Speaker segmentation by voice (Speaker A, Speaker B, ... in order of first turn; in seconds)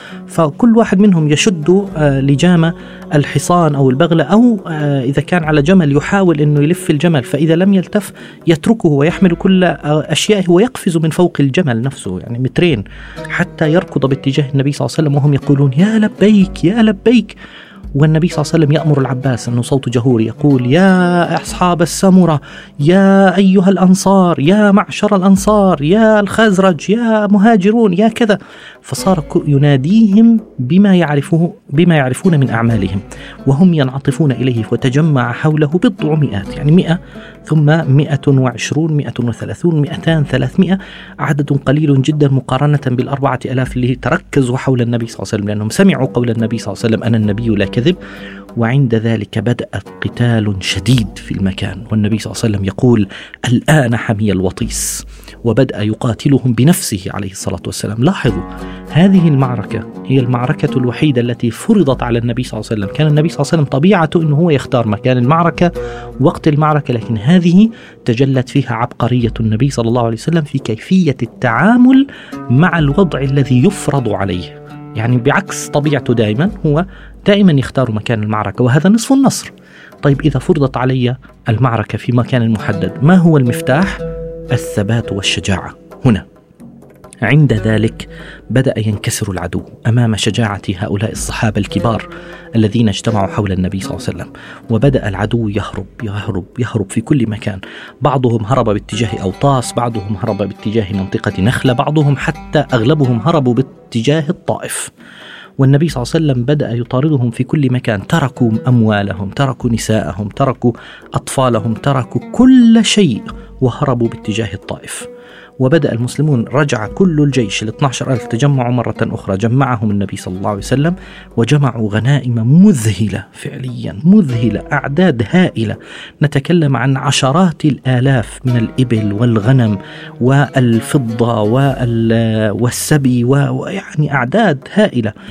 Speaker A: 0.3-17.4, 18.0-48.0, 48.6-65.7, 66.2-79.5, 80.0-84.0, 84.5-86.3, 87.2-92.0, 92.6-104.9, 105.6-115.1, 115.6-135.1